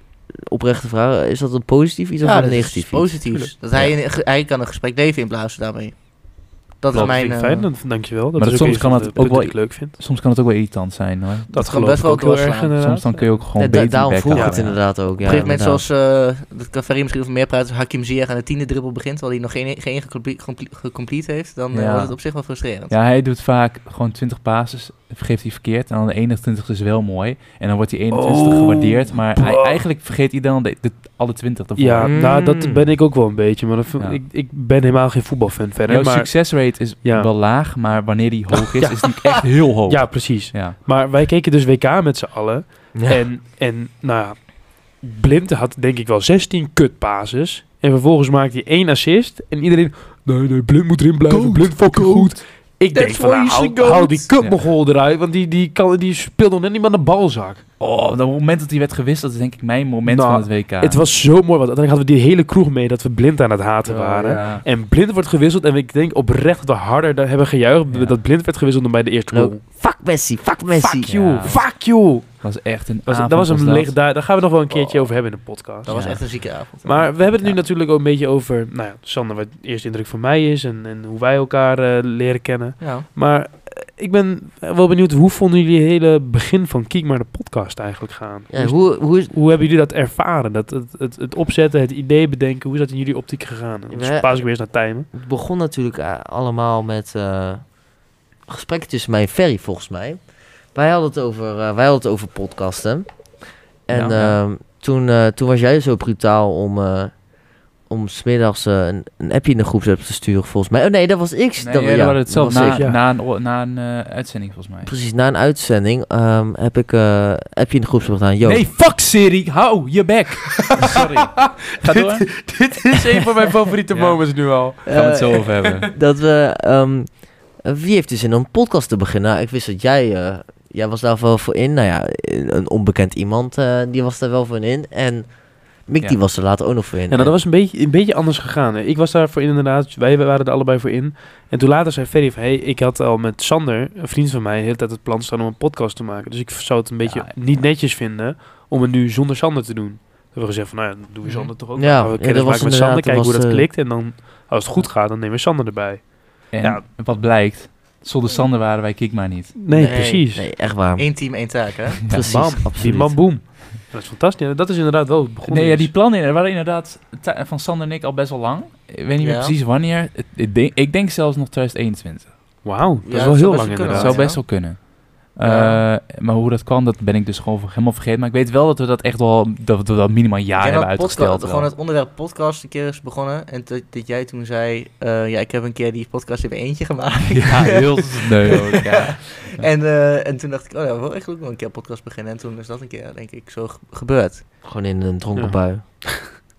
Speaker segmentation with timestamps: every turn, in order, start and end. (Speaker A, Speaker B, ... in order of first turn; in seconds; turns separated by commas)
Speaker A: 0.3-3.9, Speaker B: 2.2-7.7, Speaker C: 3.3-3.5, Speaker C: 6.9-9.9, Speaker D: 8.4-11.5, Speaker B: 11.5-12.8, Speaker C: 11.5-13.5, Speaker D: 12.8-14.8, Speaker A: 13.6-15.8, Speaker C: 14.3-14.6, Speaker B: 15.2-22.9, Speaker D: 21.7-22.2, Speaker D: 22.9-32.1, Speaker C: 28.1-29.8, Speaker C: 31.8-36.5, Speaker A: 32.1-32.9, Speaker D: 35.9-40.8, Speaker C: 37.0-37.3, Speaker C: 38.8-57.6, Speaker A: 42.9-43.2, Speaker D: 51.3-51.8, Speaker B: 52.9-54.3, Speaker D: 57.8-61.0, Speaker C: 60.1-69.6, Speaker A: 63.9-64.5, Speaker D: 64.3-64.7, Speaker A: 69.3-71.1, Speaker C: 70.7-72.3, Speaker D: 71.0-71.8, Speaker D: 72.4-74.0, Speaker C: 73.1-76.0, Speaker B: 75.8-77.1, Speaker D: 75.9-76.2, Speaker C: 76.8-95.1, Speaker B: 82.8-83.1, Speaker A: 88.5-89.3, Speaker A: 93.9-94.5, Speaker A: 95.1-97.7, Speaker A: 98.5-100.2, Speaker A: 100.7-103.1, Speaker A: 103.9-107.1, Speaker D: 103.9-104.4, Speaker A: 107.9-112.8, Speaker D: 111.6-114.9, Speaker C: 112.7-113.0, Speaker A: 114.8-118.7, Speaker D: 118.4-122.5, Speaker C: 120.6-125.9, Speaker D: 123.9-125.9, Speaker A: 124.9-135.3, Speaker A: 135.8-137.3, Speaker C: 137.1-156.8, Speaker D: 147.1-147.7, Speaker A: 151.8-153.7, Speaker D: 156.5-159.6, Speaker C: 159.6-160.5, Speaker A: 159.7-161.2, Speaker B: 159.7-162.3, Speaker A: 162.1-163.3, Speaker C: 162.2-165.9, Speaker D: 165.5-172.4, Speaker B: 169.2-169.5, Speaker C: 172.6-174.2, Speaker B: 173.1-174.4, Speaker D: 173.9-181.7, Speaker B: 175.4-175.8, Speaker B: 180.6-194.4, Speaker D: 187.3-189.7, Speaker A: 194.6-195.8, Speaker C: 195.4-196.3